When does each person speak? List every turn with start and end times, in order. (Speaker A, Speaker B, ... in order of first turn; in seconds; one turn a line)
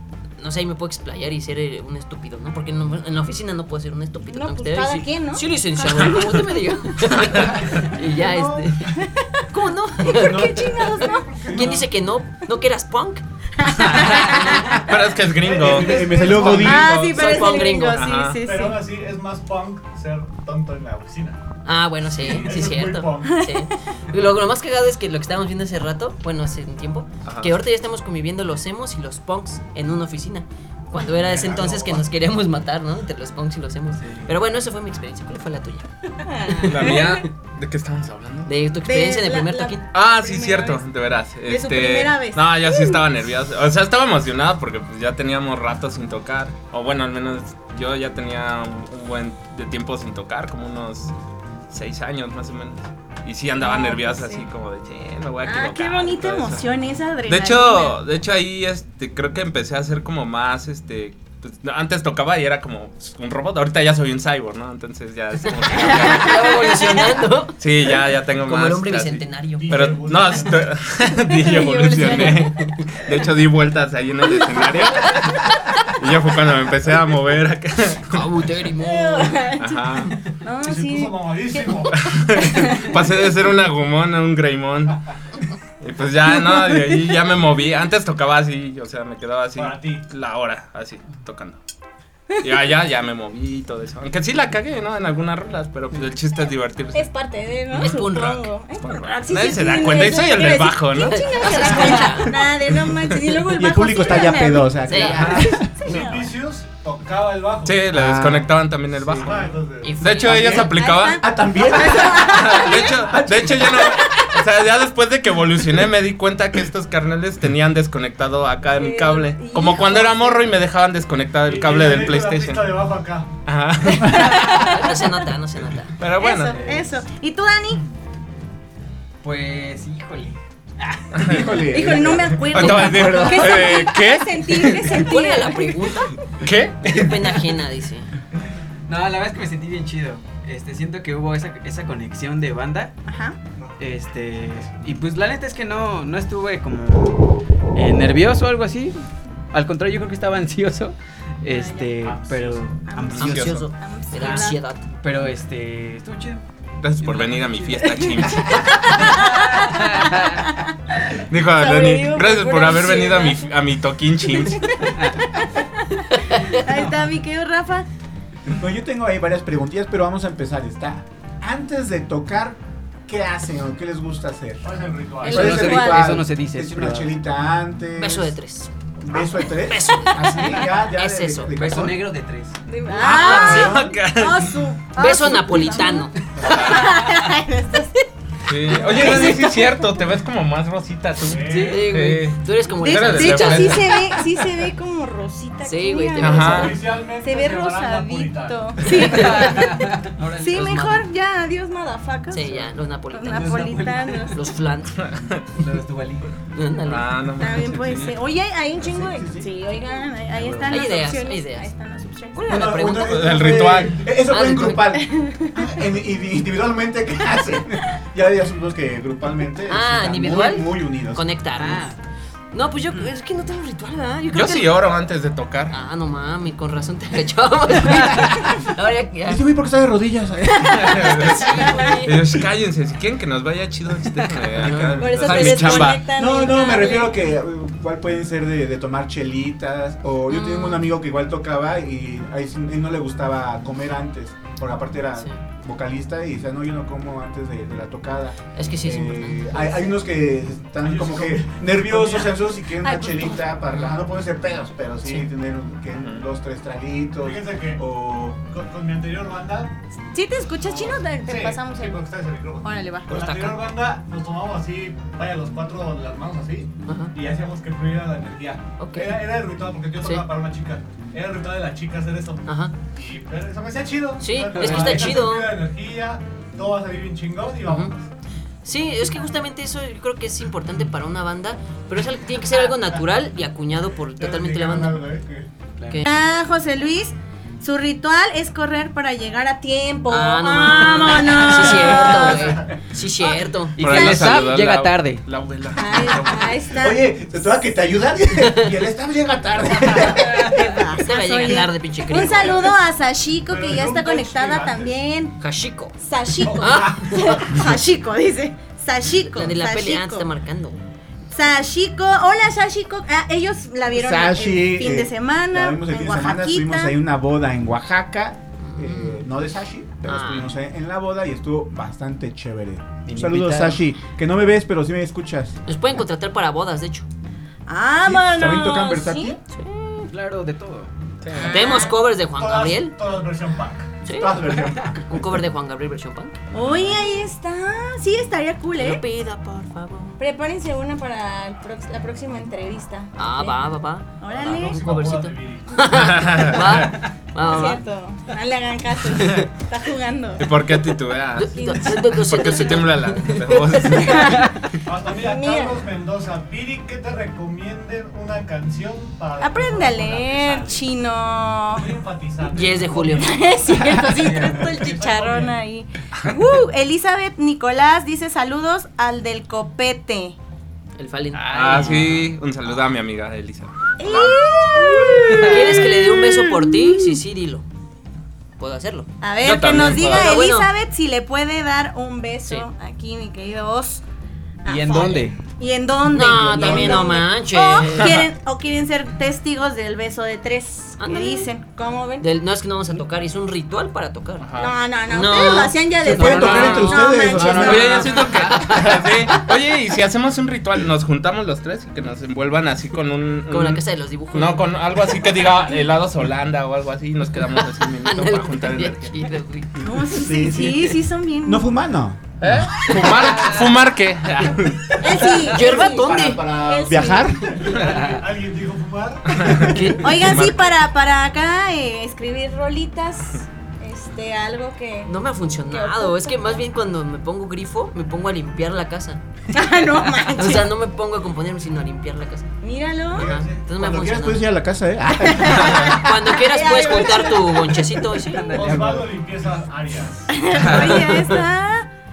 Speaker A: 0.4-8.9
Speaker B: 4.3-5.4
Speaker C: 8.1-8.7
Speaker B: 9.0-9.2
Speaker A: 9.5-13.2
Speaker B: 10.0-11.4
Speaker D: 10.0-10.9
Speaker C: 11.3-11.8
Speaker B: 13.6-14.8
Speaker A: 13.8-14.8
Speaker E: 14.7-18.4
Speaker C: 15.2-16.9
Speaker D: 15.6-17.0
Speaker B: 16.5-18.8
Speaker A: 16.9-18.1
Speaker C: 18.4-21.4
Speaker A: 21.6-35.9
Speaker C: 22.1-23.4
Speaker B: 23.3-23.6
Speaker E: 27.2-27.6
Speaker C: 31.3-32.0
Speaker F: 34.0-34.3
Speaker B: 36.2-37.2
Speaker A: 36.5-37.2
Speaker E: 36.6-38.5
Speaker A: 38.5-39.8
Speaker B: 38.8-40.9
Speaker E: 39.9-51.1
Speaker B: 41.4-43.0
Speaker E: 51.7-56.6
Speaker B: 53.6-54.5
Speaker B: 55.4-58.0
Speaker E: 57.3-66.6
Speaker A: 65.7-69.9
Speaker E: 67.6-78.3
Speaker C: 69.6-70.8
Speaker B: 71.1-72.6
Speaker A: 72.0-72.6
Speaker B: 74.3-74.7
Speaker A: 78.1-79.4
Speaker B: 78.8-83.1
Speaker E: 79.5-80.2
Speaker C: 80.6-82.1
Speaker E: 81.9-85.0
Speaker E: 85.8-91.6
Speaker C: 89.5-90.1
Speaker E: 92.4-97.1
Speaker B: 96.9-106.3
Speaker E: 97.7-98.0
Speaker A: 97.7-98.5
Speaker E: 98.8-103.2
Speaker A: 101.0-102.5
Speaker D: 103.5-105.7
Speaker A: 104.8-105.4
Speaker E: 105.0-106.0
Speaker C: 105.8-107.9
Speaker E: 107.6-111.2
Speaker D: 107.9-108.6
Speaker C: 109.1-110.1
Speaker A: 109.8-110.7
Speaker D: 110.2-113.9
Speaker B: 110.7-114.3
Speaker E: 112.0-122.7
Speaker B: 118.7-120.6
Speaker C: 121.4-123.4
Speaker E: 123.4-124.7
Speaker B: 123.9-124.9
Speaker A: 124.1-126.0
Speaker E: 126.0-126.6
Speaker B: 126.1-127.8
Speaker F: 126.5-126.9
Speaker F: 129.2-131.2
Speaker E: 131.1-131.6
Speaker D: 131.2-133.7
Speaker B: 131.6-136.2
Speaker E: 132.5-134.9
Speaker A: 134.8-136.2
Speaker E: 136.4-137.4
Speaker A: 136.8-138.1
Speaker F: 138.9-142.9
Speaker B: 143.1-143.4
Speaker C: 143.6-143.9
Speaker F: 143.8-147.2
Speaker F: 147.7-153.5
Speaker B: 151.5-152.0
Speaker C: 152.0-152.7
Speaker B: 152.9-154.6
Speaker E: 153.1-153.7
Speaker A: 153.2-154.8
Speaker F: 154.1-154.5
Speaker F: 155.0-156.4
Speaker E: 156.8-158.9
Speaker F: 157.0-158.3
Speaker B: 158.1-160.7
Speaker F: 158.9-160.4
Speaker E: 161.3-164.9
Speaker B: 161.5-163.5
Speaker B: 164.3-167.9
Speaker A: 166.2-166.6
Speaker F: 166.7-167.2
Speaker D: 168.5-178.3
Speaker C: 174.6-175.5
Speaker B: 175.2-176.2
Speaker F: 175.3-177.2
Speaker A: 177.9-178.7
Speaker D: 179.0-182.0
Speaker A: 179.6-181.8
Speaker F: 181.5-182.6
Speaker B: 182.7-188.0
Speaker A: 183.0-183.8
Speaker E: 183.0-184.6
Speaker D: 183.2-183.8
Speaker A: 184.9-186.1
Speaker E: 186.4-187.1
Speaker F: 186.5-187.1
Speaker E: 188.4-194.2
Speaker B: 188.7-190.0
Speaker C: 191.2-191.9
Speaker F: 191.3-191.8
Speaker A: 191.6-193.9
Speaker B: 192.8-204.4
Speaker A: 195.6-196.7
Speaker E: 196.2-196.8
Speaker C: 196.5-198.8
Speaker F: 198.9-200.8
Speaker A: 200.5-201.1
Speaker A: 202.3-203.7
Speaker F: 203.3-204.3
Speaker A: 204.3-205.0
Speaker E: 205.0-205.4
Speaker F: 205.6-206.3
Speaker A: 206.5-207.1
Speaker E: 206.8-208.2
Speaker B: 207.4-212.4
Speaker D: 208.8-209.5
Speaker F: 210.3-210.9
Speaker A: 210.7-211.7
Speaker A: 212.3-215.0
Speaker D: 212.5-221.2
Speaker E: 212.8-214.1
Speaker B: 214.9-215.7
Speaker A: 219.7-221.9
Speaker F: 221.6-221.9
Speaker A: 222.5-224.8
Speaker E: 224.3-225.7
Speaker A: 225.7-229.4
Speaker D: 227.8-228.4
Speaker D: 229.2-231.3
Speaker E: 230.7-236.1
Speaker A: 231.1-232.1
Speaker B: 231.5-232.2
Speaker F: 234.1-234.7
Speaker A: 234.5-236.0
Speaker B: 235.0-237.2
Speaker D: 236.1-258.4
Speaker A: 240.3-240.9
Speaker A: 248.6-249.7
Speaker C: 250.8-252.5
Speaker B: 252.8-253.4
Speaker A: 253.7-254.0
Speaker E: 256.0-256.2
Speaker C: 257.2-257.8
Speaker C: 258.5-259.7
Speaker B: 260.1-262.1
Speaker C: 260.6-278.1
Speaker B: 262.6-263.1
Speaker A: 263.1-263.6
Speaker A: 266.9-267.1
Speaker A: 268.8-269.2
Speaker A: 270.0-270.2
Speaker A: 272.4-272.7
Speaker A: 274.2-275.5
Speaker F: 274.5-275.1
Speaker A: 277.6-277.9
Speaker A: 278.6-285.1
Speaker C: 284.2-285.5
Speaker F: 285.8-286.0
Speaker B: 286.1-292.6
Speaker A: 290.1-294.4
Speaker C: 292.3-292.6
Speaker F: 293.8-295.2
Speaker E: 293.8-296.6
Speaker B: 294.1-294.4
Speaker B: 295.7-297.5
Speaker D: 296.8-300.5
Speaker A: 298.4-298.7
Speaker C: 299.7-300.1
Speaker B: 300.0-305.4
Speaker F: 300.4-300.7
Speaker A: 301.0-302.7
Speaker C: 303.5-305.0
Speaker A: 305.4-306.0
Speaker B: 306.0-310.3
Speaker C: 306.3-307.4
Speaker A: 306.6-307.4
Speaker A: 309.3-310.8
Speaker B: 311.3-316.9
Speaker D: 313.9-325.6
Speaker A: 318.6-319.3
Speaker A: 320.0-320.5
Speaker F: 323.1-323.8
Speaker A: 325.7-327.1
Speaker B: 327.7-329.4
Speaker D: 328.0-329.4
Speaker A: 329.5-330.1
Speaker F: 330.1-330.9
Speaker E: 331.2-331.7
Speaker B: 331.3-332.0
Speaker A: 331.4-333.0
Speaker C: 332.2-333.9
Speaker A: 334.0-336.4
Speaker D: 334.1-335.3
Speaker B: 336.5-339.0
Speaker A: 338.8-340.2
Speaker B: 340.2-343.6
Speaker A: 343.1-347.8
Speaker B: 344.2-344.8
Speaker C: 344.3-345.8
Speaker E: 345.9-347.0
Speaker B: 347.4-350.5
Speaker E: 350.4-354.5
Speaker A: 351.4-354.2
Speaker B: 351.6-352.0
Speaker B: 353.9-354.5
Speaker F: 354.1-354.5
Speaker C: 354.9-360.9
Speaker B: 355.1-355.9
Speaker B: 359.4-361.9
Speaker C: 361.7-363.3
Speaker A: 362.5-363.5
Speaker B: 363.1-370.4
Speaker F: 364.0-364.8
Speaker C: 364.4-365.6
Speaker A: 371.0-372.1
Speaker F: 371.4-372.3
Speaker E: 371.4-374.4
Speaker B: 374.0-377.2
Speaker A: 374.9-377.6
Speaker F: 375.1-375.9
Speaker A: 378.6-379.1
Speaker B: 379.2-384.0
Speaker E: 379.4-380.5
Speaker A: 379.8-380.7
Speaker B: 384.6-392.3
Speaker F: 384.6-385.4
Speaker A: 386.1-388.3
Speaker E: 387.9-388.2
Speaker A: 391.0-391.5
Speaker A: 392.2-394.4
Speaker E: 394.4-394.8
Speaker B: 394.6-398.3
Speaker A: 395.1-399.4
Speaker D: 396.0-398.1
Speaker E: 396.5-409.2
Speaker A: 403.5-404.7
Speaker A: 408.0-409.7
Speaker B: 409.8-411.7
Speaker D: 410.0-412.7
Speaker E: 412.4-415.1
Speaker F: 413.2-413.6
Speaker B: 415.0-417.4
Speaker A: 415.5-416.5
Speaker D: 415.5-417.7
Speaker C: 417.5-419.5
Speaker F: 417.8-418.2
Speaker E: 419.3-420.7
Speaker A: 419.5-420.4
Speaker B: 419.9-425.1
Speaker A: 425.1-429.2
Speaker B: 425.7-426.6
Speaker B: 429.5-430.7
Speaker A: 430.3-432.5
Speaker B: 432.6-433.3
Speaker A: 433.1-434.5
Speaker C: 433.1-433.6
Speaker D: 433.2-436.2
Speaker B: 435.3-438.0
Speaker A: 435.8-438.5
Speaker F: 438.3-439.1
Speaker C: 438.5-440.4
Speaker B: 440.3-441.9
Speaker E: 440.6-441.0
Speaker A: 440.6-441.4